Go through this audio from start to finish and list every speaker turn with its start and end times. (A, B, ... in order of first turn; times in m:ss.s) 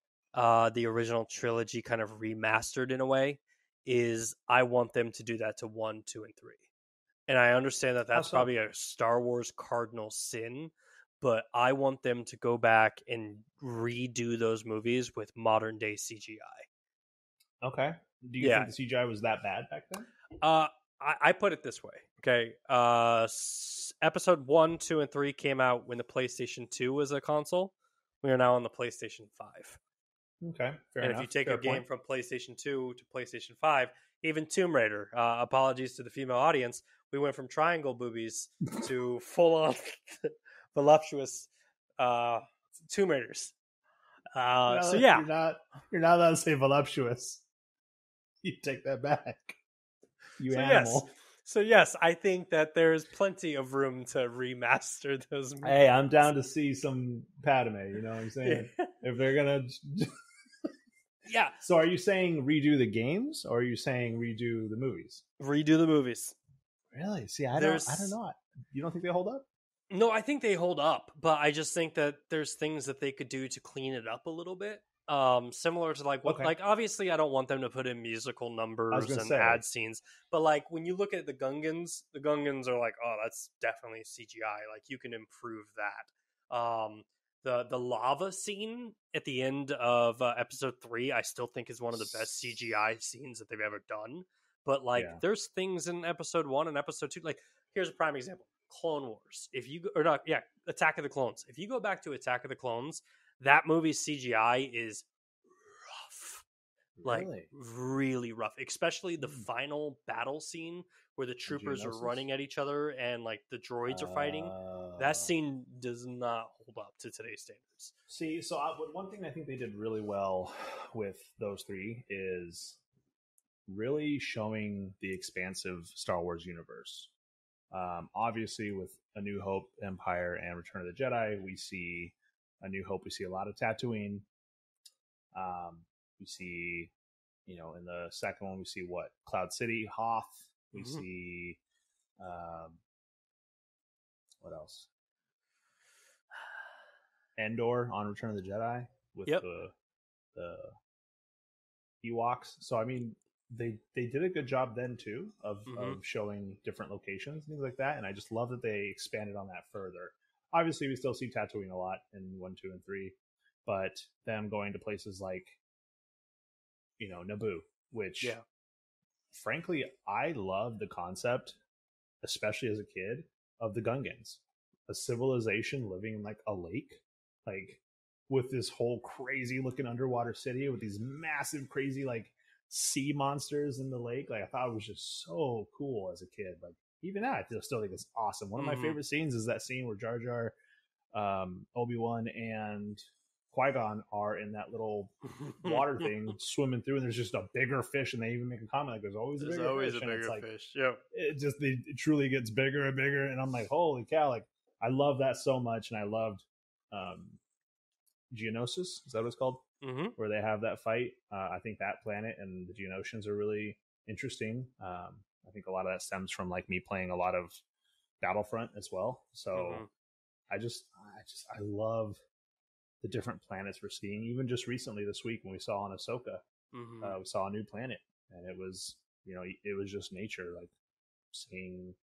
0:00.3-0:06.6 A
0:07.3-0:16.7 A
0:08.1-0:08.5 B
0:17.6-0:20.1 B
0:18.4-0:18.7 A
0:20.4-0:29.8 A
0:30.4-0:31.8 B
0:31.0-0:43.5 A
0:44.3-0:45.3 A
0:44.7-0:47.4 B
0:48.4-0:49.6 B
0:50.4-0:51.1 B
0:50.5-0:56.3 A
0:55.6-1:00.1 B
0:58.4-0:58.9 A
1:01.3-1:01.6 A
1:01.6-1:05.2 B
1:05.4-1:06.4 A
1:06.9-1:09.5 B
1:07.6-1:08.2 A
1:09.9-1:45.0 A
1:16.2-1:16.5 B
1:18.9-1:19.6 B
1:35.0-1:35.2 B
1:45.8-1:46.4 A
1:47.0-1:47.5 B
1:47.0-1:57.9 A
1:49.2-1:49.5 B
1:51.5-1:52.3 B
1:53.9-1:55.3 B
1:58.1-2:02.8 B
2:03.7-2:07.1 B
2:07.7-2:14.3 B
2:15.3-2:16.9 B
2:17.5-2:21.6 B
2:20.7-2:21.1 A
2:22.2-2:22.8 B
2:24.4-2:24.9 B
2:27.4-2:29.7 B
2:30.4-2:30.7 B
2:32.0-2:45.6 B
2:35.7-2:36.0 A
2:47.0-2:48.4 B
2:49.3-2:51.6 B
2:52.2-3:10.6 B
3:08.6-3:09.0 A
3:11.1-3:20.5 B
3:15.3-3:16.3 A
3:19.4-3:21.0 A
3:21.1-3:27.4 B
3:28.3-3:29.6 B
3:29.8-3:30.2 A
3:30.2-3:37.6 B
3:38.2-3:39.8 B
3:39.5-3:39.9 A
3:40.5-3:42.2 B
3:43.0-3:46.4 B
3:46.7-3:47.2 A
3:47.0-3:50.7 B
3:51.3-3:52.0 B